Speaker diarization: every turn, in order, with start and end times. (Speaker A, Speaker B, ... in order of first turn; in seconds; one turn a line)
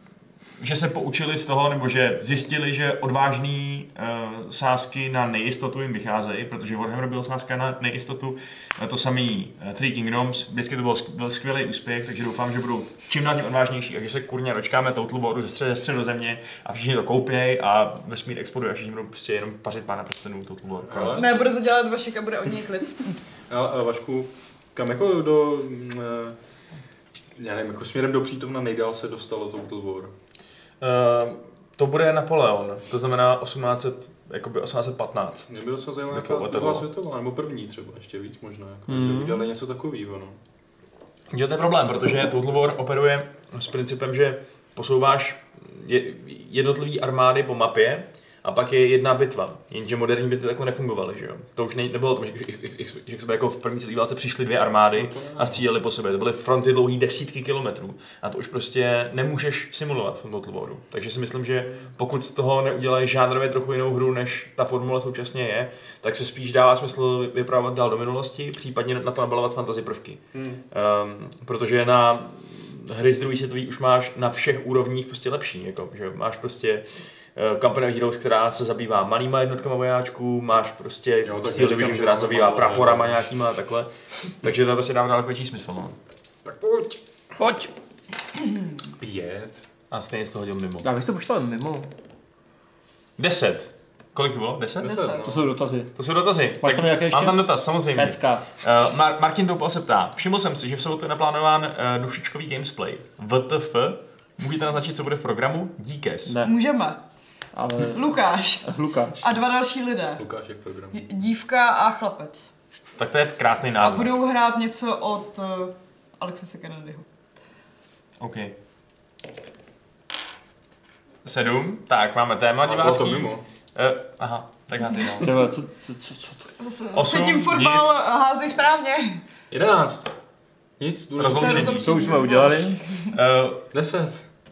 Speaker A: 0.6-21.4
Speaker B: 20.8-21.3
Speaker C: 21.1-23.0
Speaker B: 23.5-26.4
Speaker B: 27.4-30.1
Speaker A: 30.8-35.5
Speaker B: 35.5-40.4
Speaker A: 36.1-36.9
Speaker D: 38.9-39.5
Speaker A: 41.3-70.2
Speaker B: 54.9-55.6
Speaker B: 70.3-70.6
Speaker A: 70.7-76.8
Speaker A: 77.3-83.9
Speaker B: 81.2-83.2
Speaker A: 84.4-86.0
Speaker B: 86.5-87.0
Speaker D: 87.4-87.7
Speaker B: 89.0-89.6
Speaker A: 89.9-90.9
Speaker D: 90.8-91.9
Speaker A: 93.2-95.1
Speaker B: 94.8-95.4
Speaker C: 94.8-95.3
Speaker D: 95.2-95.9
Speaker A: 96.0-106.4
Speaker D: 96.6-97.4
Speaker D: 97.9-98.5
Speaker D: 106.2-106.5
Speaker C: 106.4-107.0
Speaker D: 107.5-108.1
Speaker C: 107.9-110.2
Speaker D: 108.6-109.2
Speaker B: 110.2-111.0
Speaker C: 110.9-112.5
Speaker A: 113.0-114.2
Speaker C: 113.8-117.0
Speaker A: 118.2-118.5
Speaker A: 121.2-125.3
Speaker B: 122.6-123.4
Speaker C: 124.9-125.2
Speaker D: 125.2-126.5
Speaker C: 126.6-129.2
Speaker A: 126.9-128.0
Speaker B: 129.5-130.1
Speaker B: 130.8-131.8
Speaker A: 131.2-131.9
Speaker C: 131.4-133.1
Speaker D: 131.8-132.8
Speaker A: 133.1-133.6
Speaker B: 133.7-134.2